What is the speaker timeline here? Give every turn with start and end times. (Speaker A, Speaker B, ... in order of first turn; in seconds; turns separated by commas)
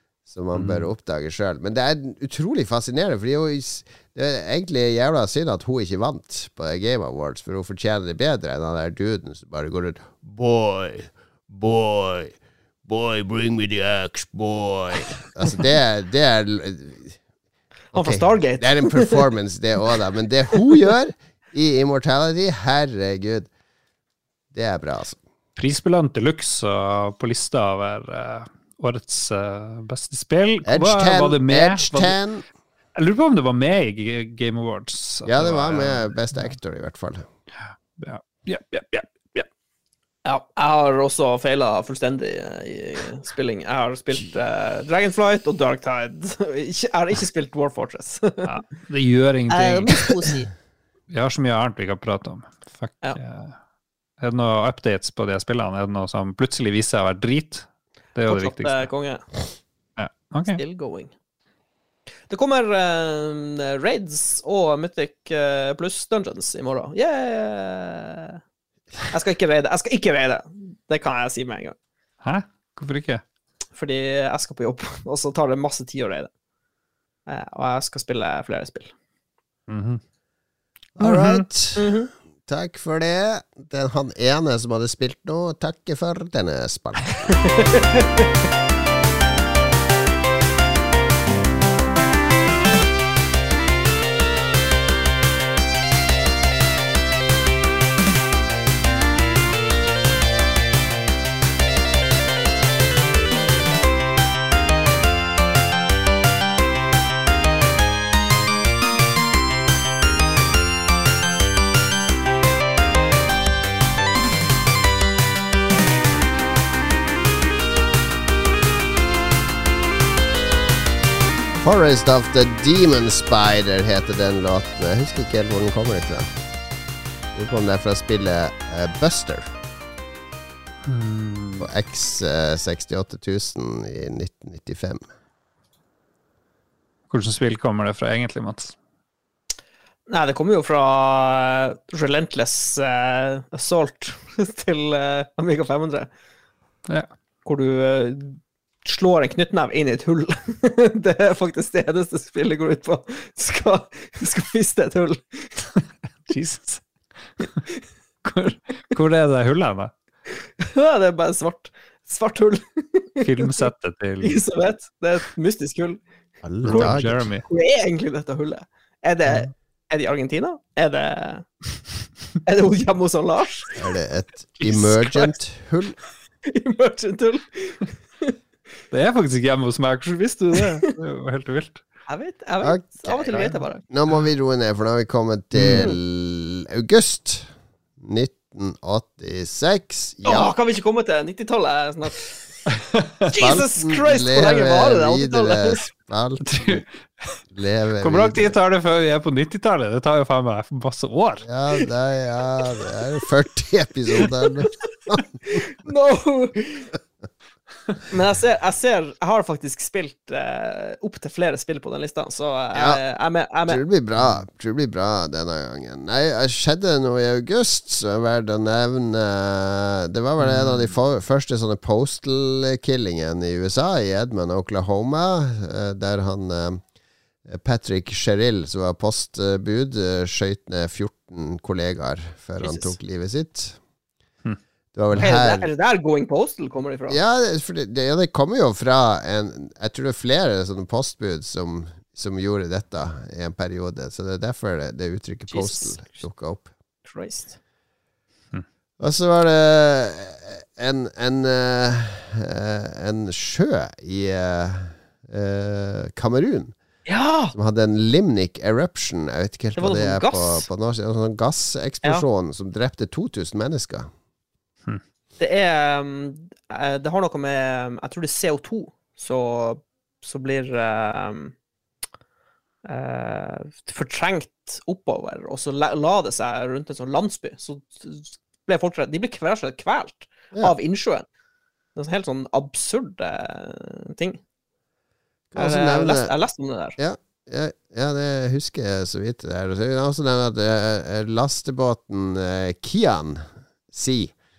Speaker A: 0.3-12.3, Speaker B: 0.5-0.9, Speaker A: 12.8-17.2, Speaker C: 17.9-19.2, Speaker A: 17.9-23.5, Speaker A: 24.5-25.2, Speaker B: 25.6-32.2, Speaker A: 30.6-32.4, Speaker B: 33.0-36.5, Speaker A: 35.2-37.2, Speaker B: 38.0-39.5, Speaker C: 40.2-48.5, Speaker B: 48.4-50.3, Speaker C: 49.5-50.5, Speaker B: 51.1-53.5, Speaker B: 54.2-58.9, Speaker C: 58.2-59.3, Speaker B: 60.0-60.6, Speaker C: 60.5-61.1, Speaker C: 62.3-68.4, Speaker C: 69.1-71.7, Speaker B: 72.2-73.2, Speaker C: 73.7-76.3, Speaker C: 77.3-78.9, Speaker B: 79.7-80.0, Speaker A: 81.0-81.9, Speaker B: 81.0-81.4, Speaker C: 81.8-82.1, Speaker A: 82.5-87.2, Speaker C: 87.4-88.2, Speaker A: 121.6-126.3, Speaker A: 127.3-129.5, Speaker B: 130.8-131.7, Speaker A: 131.6-135.0, Speaker B: 137.1-138.7, Speaker C: 140.1-146.1, Speaker C: 147.4-155.7, Speaker B: 156.3-156.8, Speaker B: 158.3-159.9, Speaker C: 160.6-163.7, Speaker B: 163.2-164.4, Speaker C: 164.2-166.0, Speaker A: 166.4-167.3, Speaker B: 166.6-167.4, Speaker C: 166.7-171.5, Speaker C: 172.4-173.7, Speaker A: 173.8-175.9, Speaker B: 174.6-175.3, Speaker C: 176.4-178.3, Speaker B: 178.9-181.8, Speaker C: 180.6-180.8, Speaker C: 182.1-183.8, Speaker A: 182.6-187.5, Speaker B: 185.5-185.9, Speaker A: 188.0-190.5, Speaker C: 190.2-192.3, Speaker C: 193.3-195.8, Speaker A: 193.4-196.8, Speaker B: 196.4-196.8, Speaker A: 197.5-198.5, Speaker B: 198.0-201.4, Speaker A: 201.4-205.2, Speaker C: 205.4-206.9, Speaker C: 208.1-213.8, Speaker A: 212.7-213.0, Speaker A: 213.7-226.8, Speaker B: 214.2-214.4, Speaker B: 220.4-220.9, Speaker A: 227.4-233.8, Speaker C: 232.6-232.9, Speaker A: 234.9-235.7, Speaker C: 235.2-237.2, Speaker A: 237.1-246.7, Speaker C: 245.5-246.0, Speaker C: 247.0-247.6, Speaker A: 249.0-256.7, Speaker C: 257.1-257.5, Speaker A: 257.5-264.1, Speaker C: 259.8-260.7, Speaker C: 265.4-271.5, Speaker C: 272.8-281.2, Speaker C: 281.9-284.4, Speaker A: 285.5-286.3, Speaker C: 285.6-287.0, Speaker A: 287.0-294.3